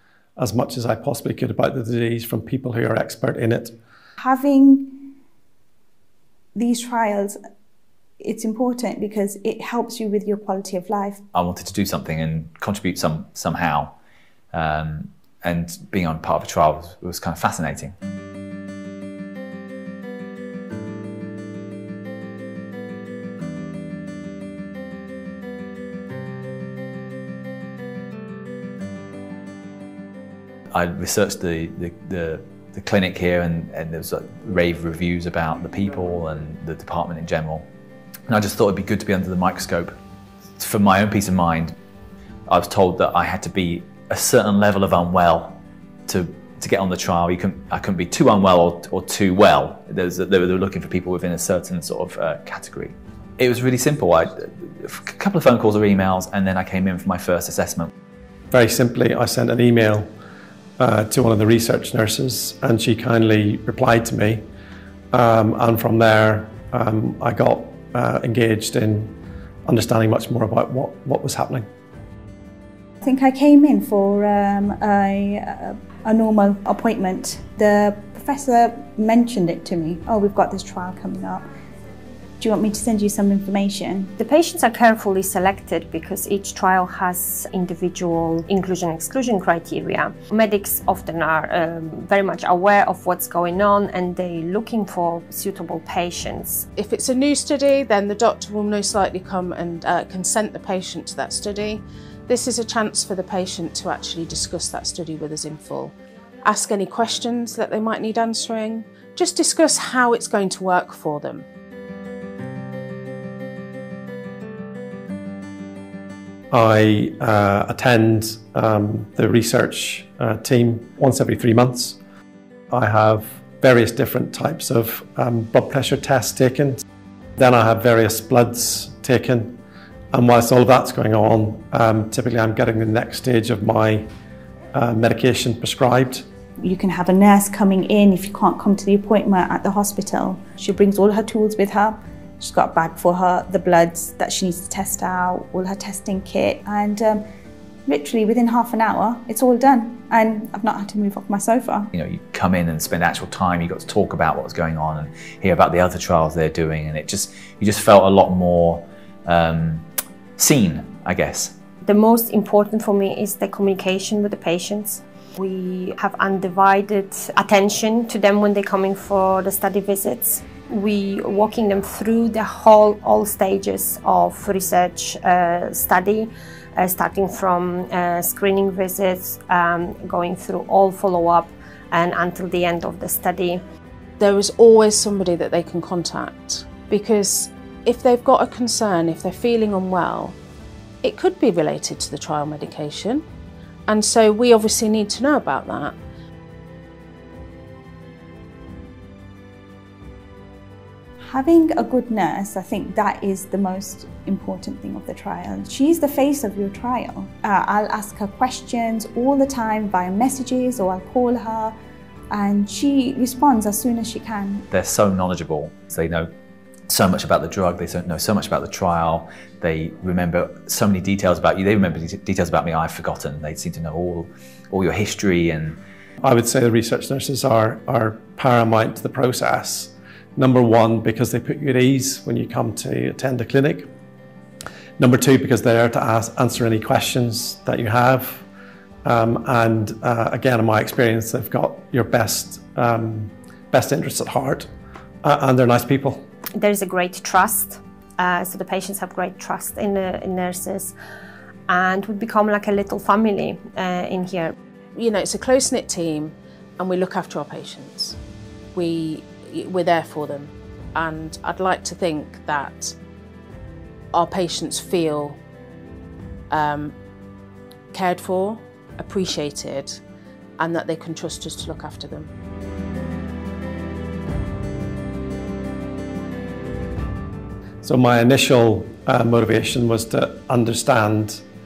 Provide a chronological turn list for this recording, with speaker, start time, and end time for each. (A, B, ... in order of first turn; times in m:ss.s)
0:00.4-0:03.8 A
0:04.2-0:05.0 B
0:06.5-0:07.4 B
0:08.2-0:11.2 B
0:11.3-0:14.0 C
0:14.5-0:18.0 C
0:30.7-0:37.7 C
0:38.3-0:40.0 C
0:40.6-0:41.8 C
0:42.5-0:57.9 C
0:58.5-1:00.1 A
1:00.8-1:04.4 A
1:05.1-1:09.2 A
1:09.7-1:11.7 A
1:13.0-1:21.5 B
1:22.4-1:24.1 B
1:24.2-1:36.7 D
1:36.8-1:51.4 E
1:56.5-2:02.0 A
2:02.7-2:06.8 A
2:07.4-2:09.6 A
2:10.1-2:14.1 A
2:14.7-2:16.2 A
2:16.6-2:27.2 B
2:27.9-2:31.9 B
2:31.9-2:41.6 C
2:41.8-3:03.6 D
3:04.2-3:10.4 E
3:11.0-3:13.2 E
3:13.9-3:16.0 E
3:21.2-3:31.7 B
3:32.3-3:34.6 B
3:34.7-3:36.3 C
3:36.9-3:45.8 C
3:46.2-3:53.9 A
3:55.0-3:58.4 A
3:59.0-4:04.7 A
4:05.2-4:06.2 A
4:06.6-4:10.9 D
4:11.7-4:14.5 D
4:14.9-4:18.2 E
4:18.8-4:22.9 E
4:24.1-4:25.4 E
4:26.5-4:26.9 E
4:27.9-4:30.0 E
4:30.6-4:32.3 E
4:37.8-4:41.4 A